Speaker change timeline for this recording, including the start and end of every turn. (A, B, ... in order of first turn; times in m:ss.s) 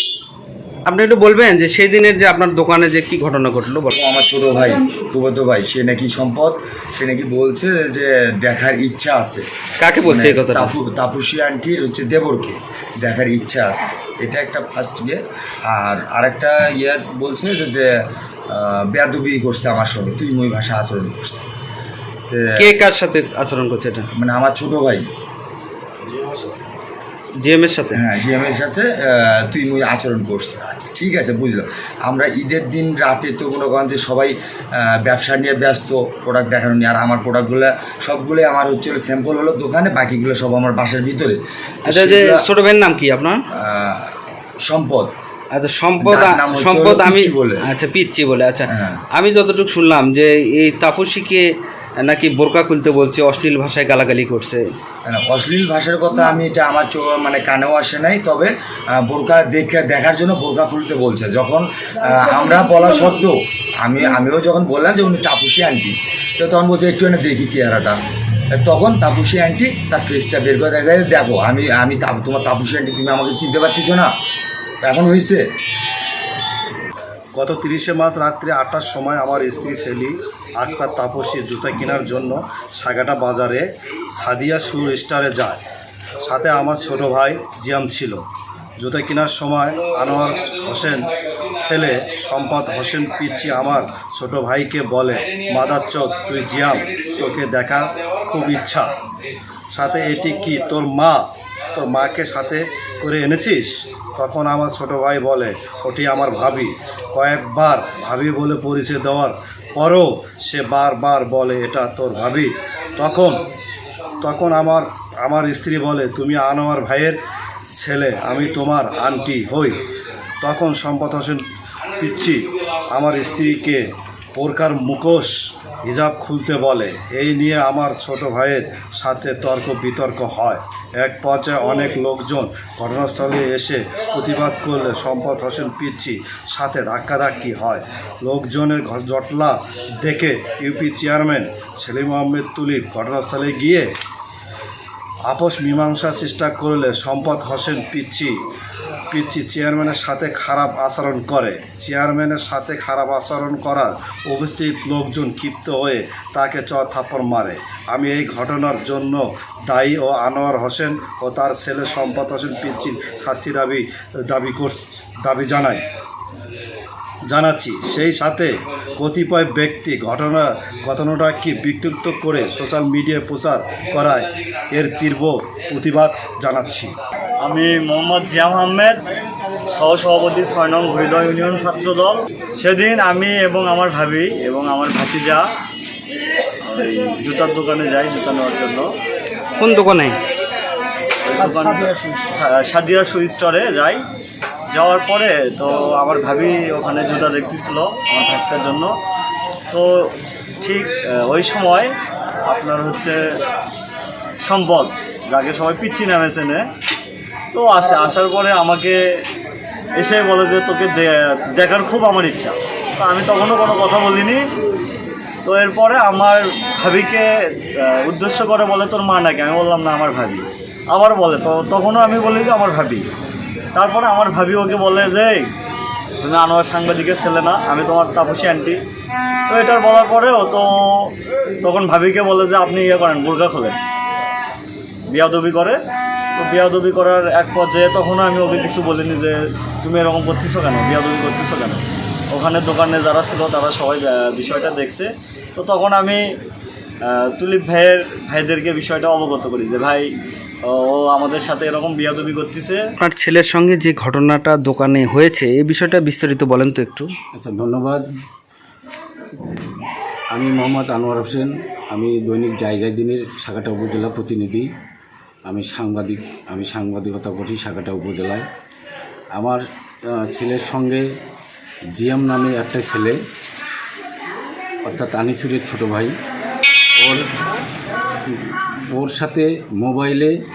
0:00.9-0:03.9 A
0:03.9-0:09.4 B
0:09.8-0:10.7 A
0:10.0-0:21.4 B
0:22.3-0:22.7 B
0:22.6-0:24.1 A
0:24.2-0:25.1 B
0:27.4-0:28.0 A
0:27.9-0:42.5 B
0:41.9-0:43.4 A
0:43.5-0:44.1 B
0:44.6-0:45.1 B
0:45.5-0:51.5 A
0:46.0-0:47.6 B
0:48.7-0:49.0 B
0:52.0-0:54.7 A
0:55.0-1:08.0 B
1:08.6-1:14.1 B
1:14.8-1:15.5 B
1:17.4-1:25.6 C
1:26.2-1:28.2 C
1:28.8-1:38.9 C
1:39.7-1:53.4 C
1:54.2-1:57.2 C
1:57.7-1:59.8 C
2:00.4-2:01.4 C
2:02.0-2:23.9 C
2:25.3-2:28.3 C
2:29.1-2:45.8 C
2:47.3-2:56.9 C
2:57.4-2:59.0 D
2:59.7-3:05.5 D
3:06.6-3:08.9 D
3:09.6-3:10.2 A
3:11.2-3:14.0 D
3:11.5-3:11.9 A
3:14.7-3:18.9 D
3:19.7-3:21.9 D
3:22.4-3:23.2 D
3:24.4-3:26.7 D
3:27.5-3:29.2 D
3:30.0-3:34.4 D
3:35.4-3:43.1 D
3:43.8-3:45.5 D
3:46.2-3:48.8 D
3:49.5-3:53.8 D
3:55.1-3:55.8 D
3:56.4-4:06.2 D
4:07.1-4:10.1 D
4:10.7-4:12.8 D
4:13.0-4:17.1 A
4:17.3-4:18.0 E
4:20.3-4:24.7 E
4:25.4-4:28.5 E
4:29.3-4:31.1 E
4:31.9-4:33.2 E
4:34.8-4:36.2 E
4:36.9-4:37.3 E
4:38.2-4:40.3 E